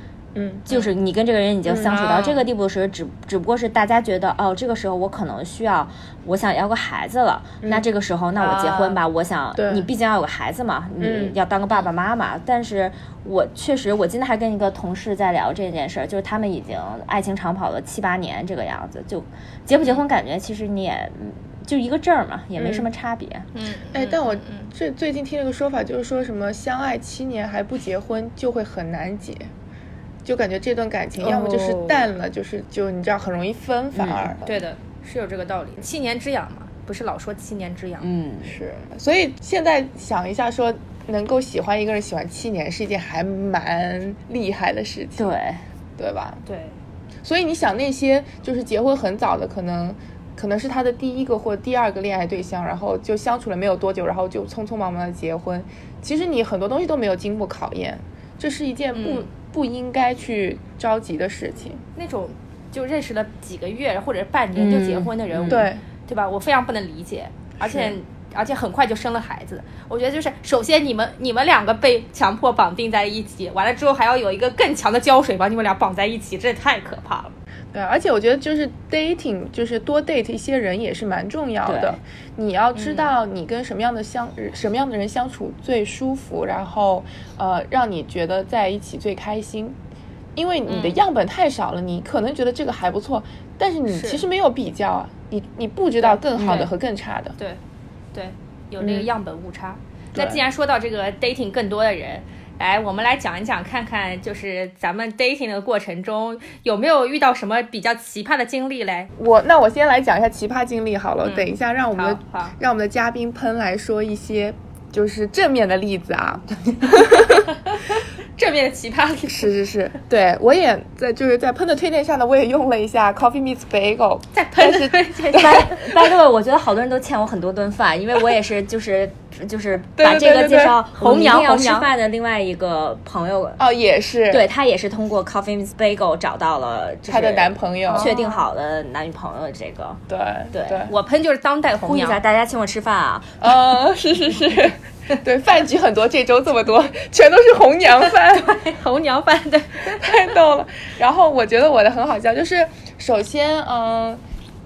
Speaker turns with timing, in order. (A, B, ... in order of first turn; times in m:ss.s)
0:00.4-0:00.6 A
0:00.7-0:23.5 B
0:01.7-0:02.1 A
0:01.9-0:02.4 C
0:08.4-0:08.9 C
0:08.6-0:08.8 A
0:09.6-0:09.9 A
0:11.0-0:11.4 A
0:22.6-0:22.9 A
0:23.6-0:24.7 C
0:23.9-0:29.5 A
0:30.2-0:34.4 A
0:31.2-0:32.0 C
0:33.9-0:34.3 B
0:34.4-0:38.1 C
0:38.0-0:38.6 B
0:38.5-0:45.3 A
0:45.2-0:45.6 B
0:46.0-0:46.4 A
0:46.4-0:46.8 C
0:47.2-1:01.8 A
0:58.9-0:59.3 C
1:02.0-1:17.4 C
1:04.6-1:05.7 B
1:05.5-1:05.8 A
1:07.6-1:08.0 A
1:17.7-1:29.8 A
1:21.6-1:22.0 B
1:22.8-1:23.2 C
1:30.4-1:37.4 A
1:30.7-1:31.0 C
1:33.9-1:34.2 C
1:36.3-1:36.7 B
1:38.1-1:49.1 C
1:40.1-1:40.4 A
1:49.2-1:57.5 A
1:51.2-1:52.5 C
1:56.7-1:59.5 C
1:59.3-2:06.1 A
2:04.3-2:05.8 C
2:05.3-2:13.6 B
2:10.0-2:10.8 A
2:11.0-2:11.9 C
2:13.6-2:14.5 A
2:14.3-2:20.0 B
2:17.1-2:18.1 A
2:17.9-2:18.4 C
2:20.1-2:20.9 A
2:20.5-2:20.9 B
2:20.9-2:22.2 C
2:21.8-2:23.6 B
2:23.4-2:28.6 A
2:28.1-2:30.2 C
2:29.9-2:34.2 A